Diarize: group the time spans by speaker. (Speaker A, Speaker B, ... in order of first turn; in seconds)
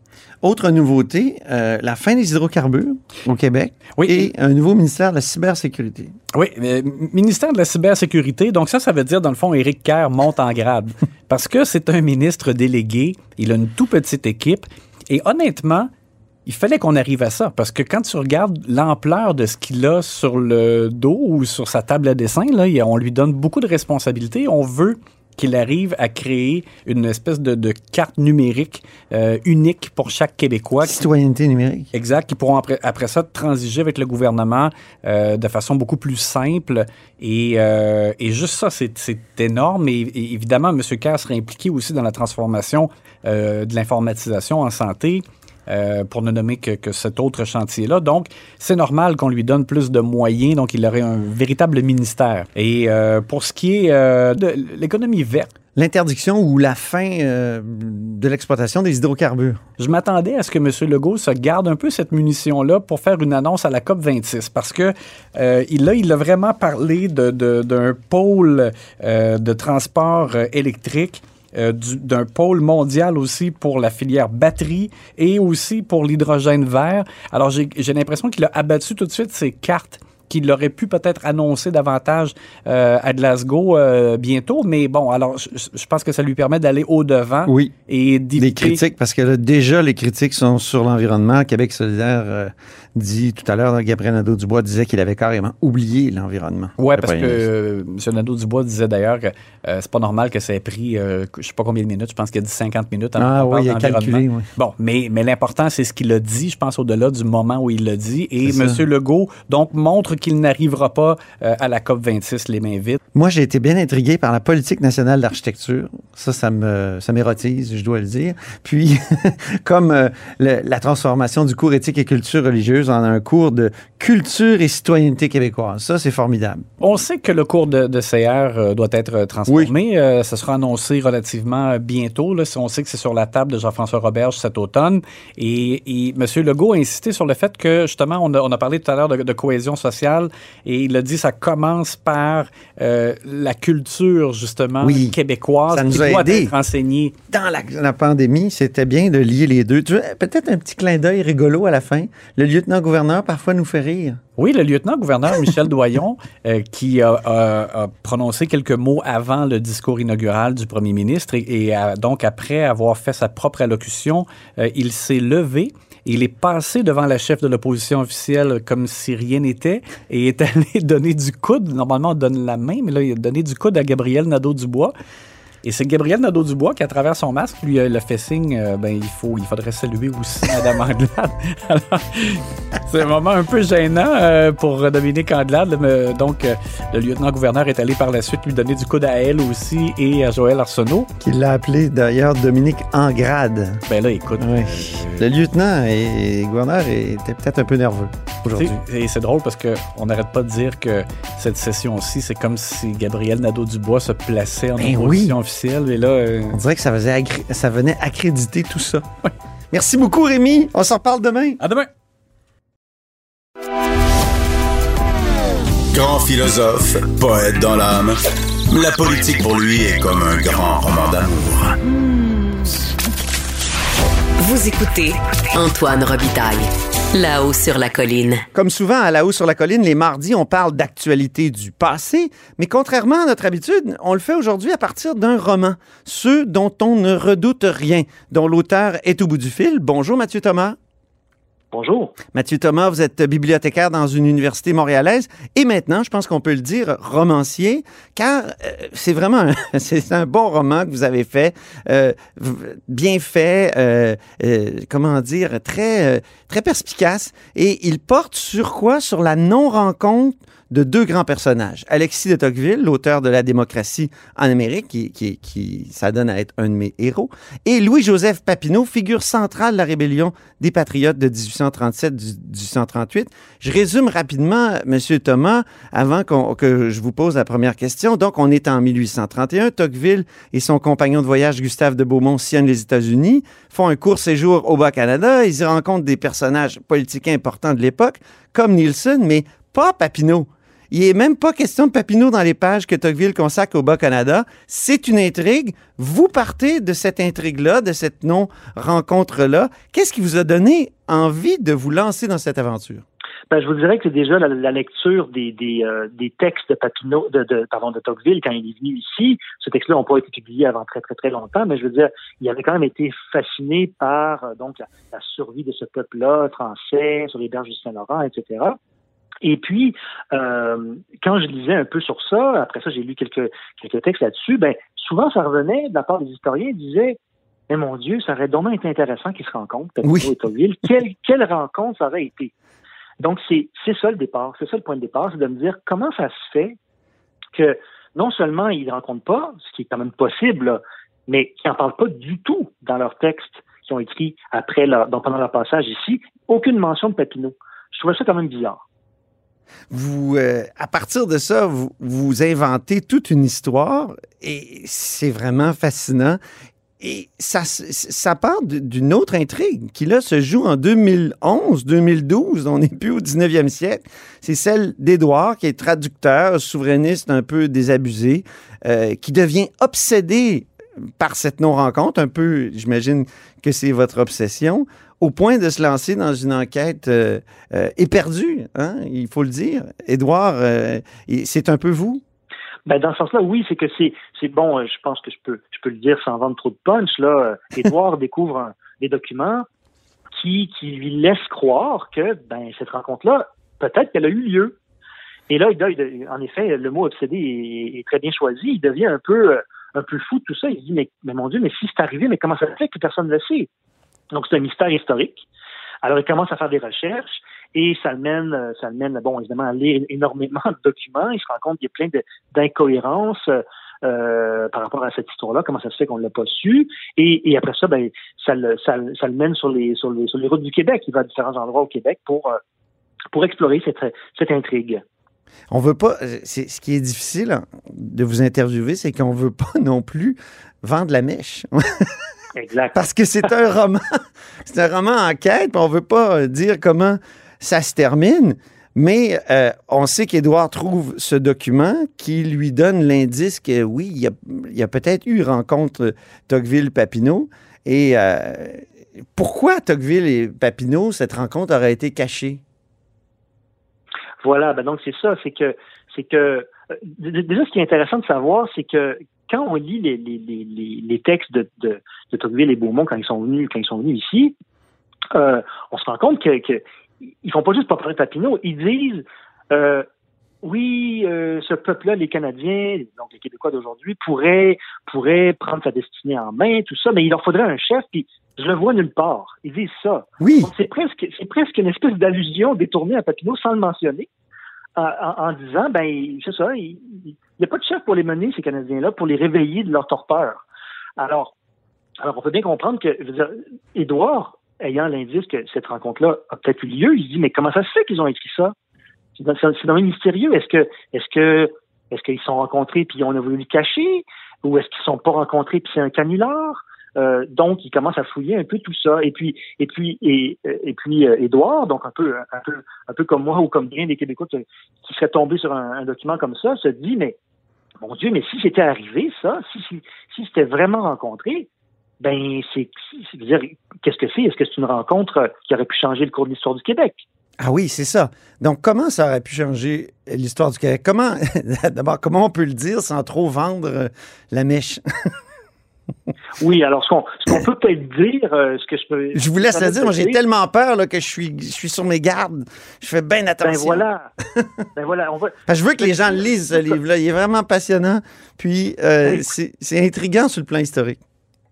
Speaker A: 0.4-6.1, 30.8-31.9, 55.8-59.6, 87.5-87.7, 88.4-97.5, 103.2-104.5, 108.5-108.8, 113.1-126.6, 129.5-129.7, 144.8-145.2, 145.7-146.5, 147.3-154.2, 191.2-193.8, 194.4-198.8, 204.8-205.4, 206.5-209.1, 209.7-211.6, 228.5-240.8, 242.3-303.0, 330.0-330.3, 349.9-356.4, 357.0-382.2, 425.7-432.1, 432.9-434.0, 434.6-452.6, 480.4-480.7, 527.6-535.3, 539.4-544.0, 545.7-551.2
Speaker B: 4.0-4.3, 6.3-15.9, 16.5-31.0, 31.9-55.5, 59.8-88.8, 96.8-113.0, 126.8-147.1, 154.4-174.9, 175.6-191.1, 193.9-195.3, 198.5-206.6, 211.6-211.9
Speaker C: 215.9-218.2, 218.7-221.8
Speaker D: 224.4-228.4
Speaker E: 241.7-242.2, 303.5-318.8, 319.4-332.5, 333.2-336.8, 337.5-348.8, 382.9-389.6, 390.3-394.8, 395.5-403.7, 404.3-405.5, 406.0-422.6, 423.3-425.0, 432.5-433.0, 454.4-464.5, 465.3-466.8, 467.4-470.1, 470.6-484.3, 484.9-490.6, 491.2-491.5, 492.2-498.7, 499.4-517.4, 518.0-521.7, 522.2-527.2, 536.6-540.4, 543.6-544.3, 545.0-547.0